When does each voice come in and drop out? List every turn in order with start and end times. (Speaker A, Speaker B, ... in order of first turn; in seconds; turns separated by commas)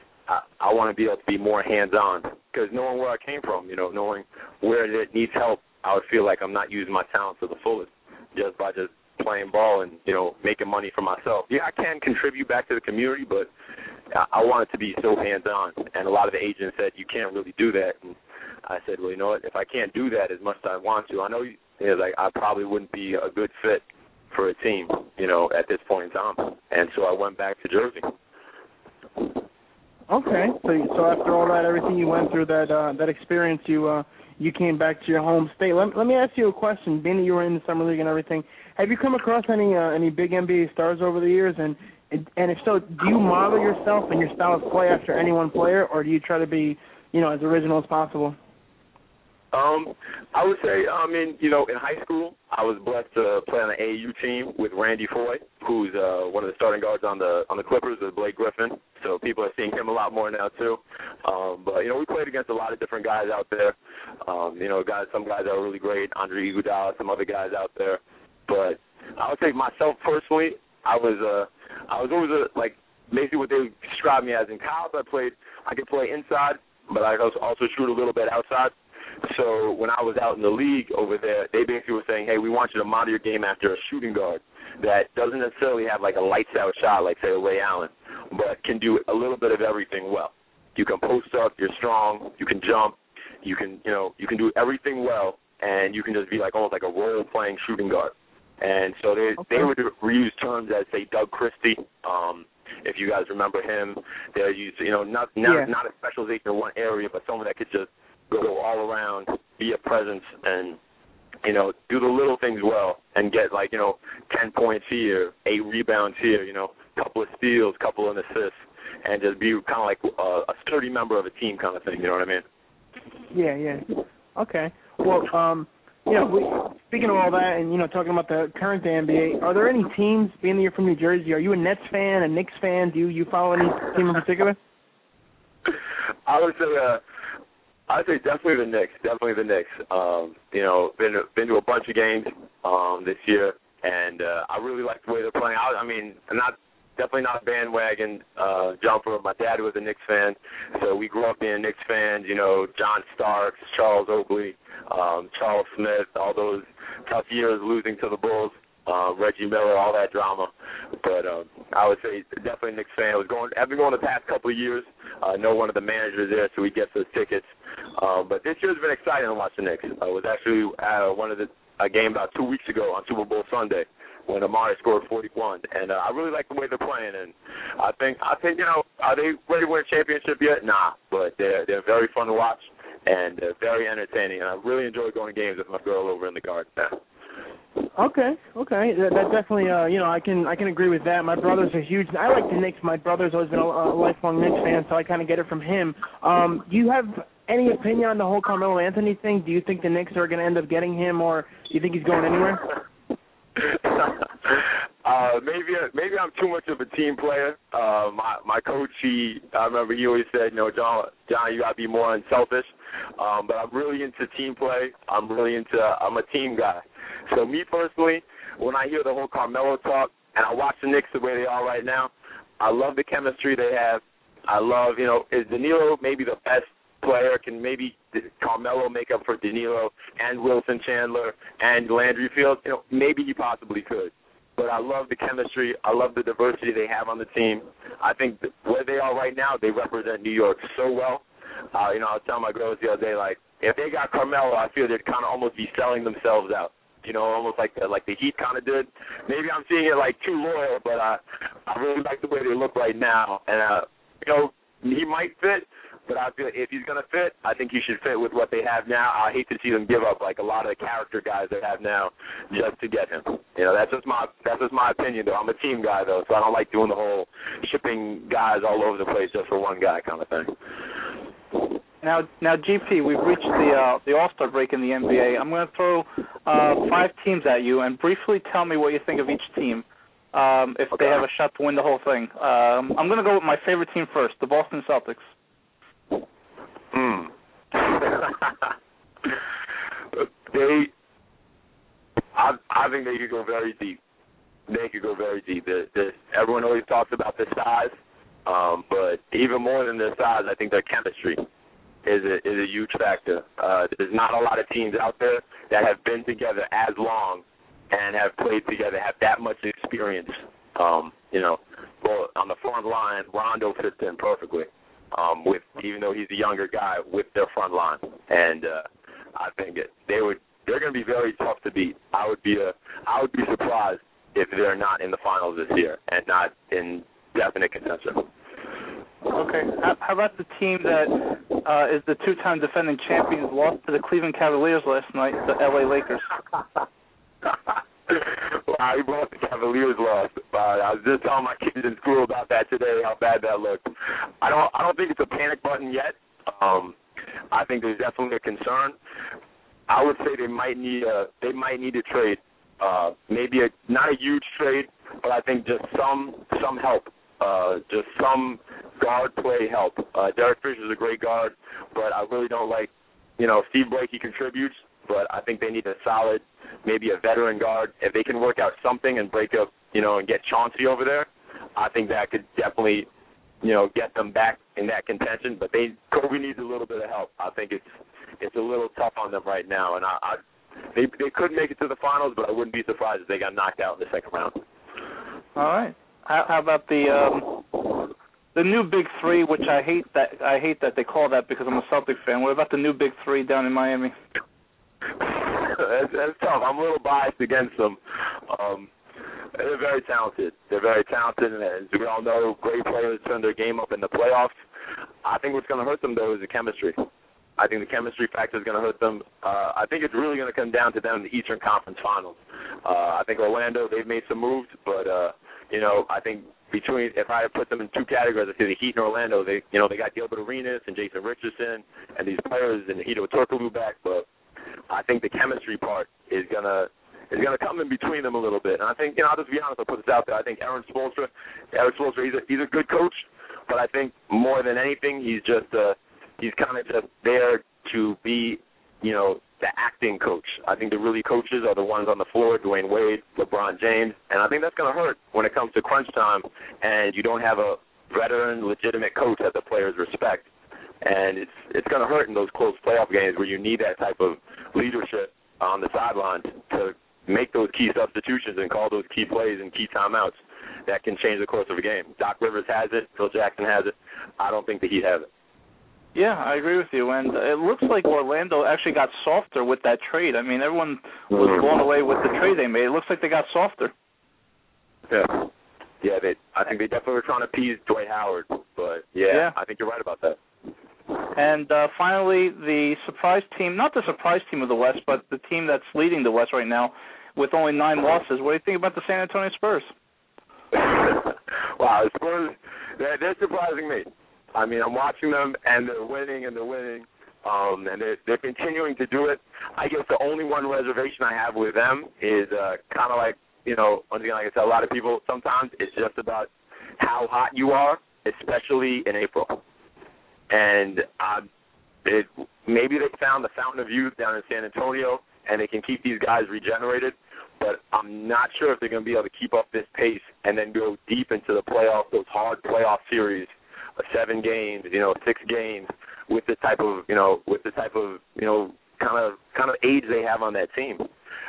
Speaker A: 0.3-13.5, Speaker A: 14.1-28.1, Speaker B: 30.1-48.4, Speaker A: 49.5-110.8, Speaker B: 99.4-99.7, Speaker B: 105.4-105.7, Speaker A: 111.4-122.4, Speaker B: 123.3-134.6, Speaker A: 136.3-137.0, Speaker A: 137.9-187.0, Speaker B: 187.9-202.7, Speaker A: 203.6-270.5, Speaker C: 272.0-285.3, Speaker A: 286.9-288.6, Speaker A: 290.1-290.9, Speaker A: 292.3-294.0, Speaker A: 294.7-297.9, Speaker A: 298.4-301.4, Speaker A: 302.1-328.3, Speaker C: 329.3-336.4, Speaker A: 338.1-343.9, Speaker A: 344.4-346.9, Speaker A: 347.5-348.9, Speaker A: 349.9-373.1, Speaker A: 373.6-377.9, Speaker A: 378.4-380.4, Speaker A: 380.9-384.6, Speaker C: 385.6-394.1, Speaker A: 395.2-398.9, Speaker A: 399.5-404.6, Speaker A: 405.2-407.0, Speaker A: 407.6-424.3, Speaker A: 424.9-450.5, Speaker A: 451.0-465.3, Speaker C: 466.1-473.9, Speaker A: 471.3-471.6, Speaker A: 475.1-475.5, Speaker A: 476.0-480.4, Speaker C: 481.4-489.9, Speaker A: 490.7-509.6, Speaker A: 510.5-511.5, Speaker A: 512.0-531.1